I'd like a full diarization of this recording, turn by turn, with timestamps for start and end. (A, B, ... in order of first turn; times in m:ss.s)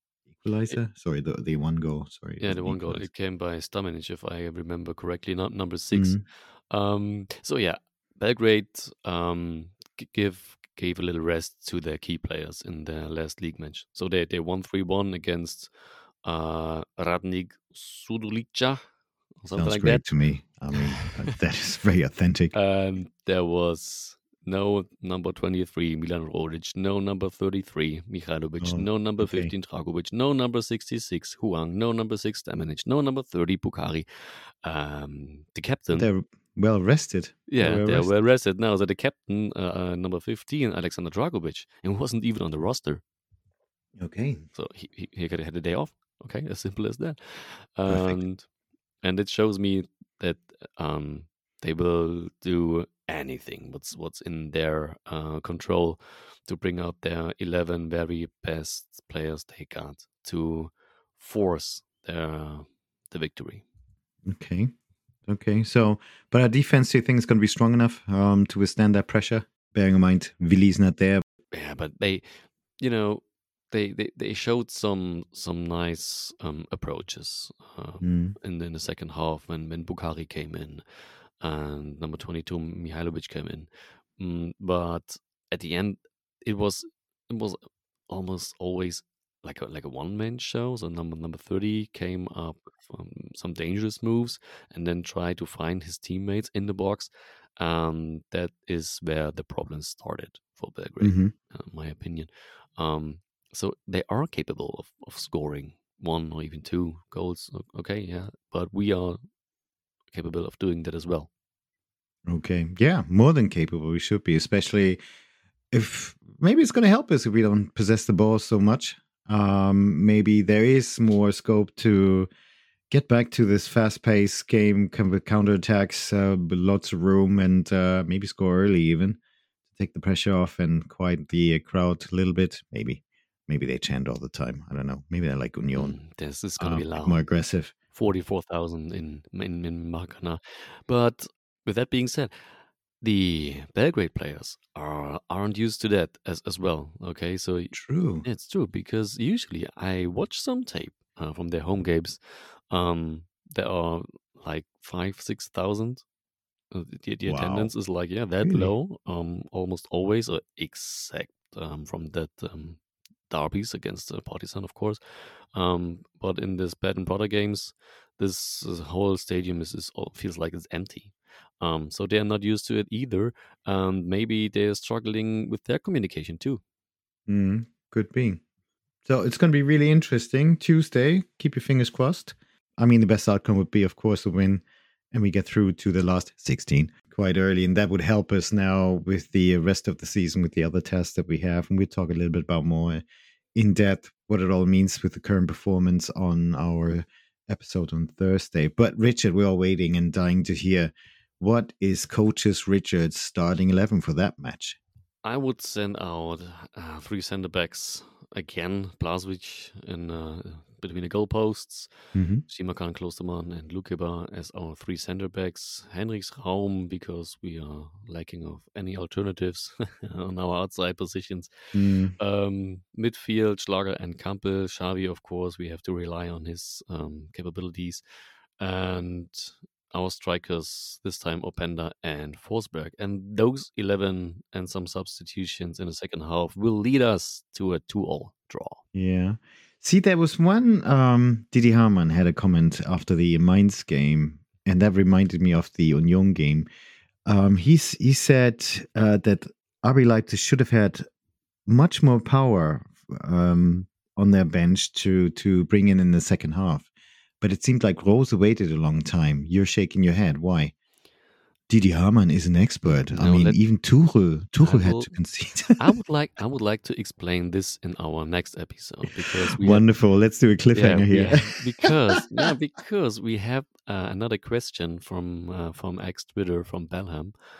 0:00.3-0:03.0 A
0:02.4-0:15.7 B
0:05.9-0:06.2 A
0:16.2-0:18.8 B
0:19.4-0:20.1 B
0:19.6-0:22.5 A
0:20.7-0:21.1 B
0:22.5-0:36.1 B
0:28.6-0:29.5 A
0:35.9-0:38.1 A
0:37.5-0:43.0 B
0:44.0-0:44.4 A
0:44.5-0:48.4 B
0:47.9-0:48.2 A
0:49.0-1:03.6 B
1:04.2-1:04.7 A
1:05.3-1:11.2 A
1:11.5-1:20.8 B
1:18.0-1:18.3 A
1:21.4-1:49.2 B
1:41.0-1:41.3 A
1:50.1-1:51.3 B
1:52.3-1:55.0 A
1:55.7-2:02.3 A
2:02.9-2:09.2 A
2:09.7-2:16.0 A
2:15.7-2:17.3 B
2:16.6-2:17.7 A
2:17.9-2:22.3 B
2:23.0-2:32.2 B
2:27.7-2:28.2 A
2:32.7-2:36.0 B
2:36.7-2:45.0 B
2:37.2-2:37.7 A
2:38.4-2:38.7 A
2:45.5-2:56.6 B
2:57.3-2:58.4 A
2:59.0-3:13.0 A
3:13.5-3:24.8 A
3:25.2-3:31.9 B
3:32.1-3:32.4 A
3:32.4-3:41.5 B
3:41.7-3:42.2 A
3:42.2-3:48.0 B
3:48.6-3:58.8 B
3:58.9-4:06.7 A
4:07.2-4:11.0 A
4:11.7-4:16.9 A
4:17.4-4:20.7 A
4:21.7-4:25.8 A
4:23.1-4:23.6 B
4:24.6-4:25.1 B
4:25.8-4:29.8 B
4:29.2-4:32.2 A
4:30.7-4:37.3 B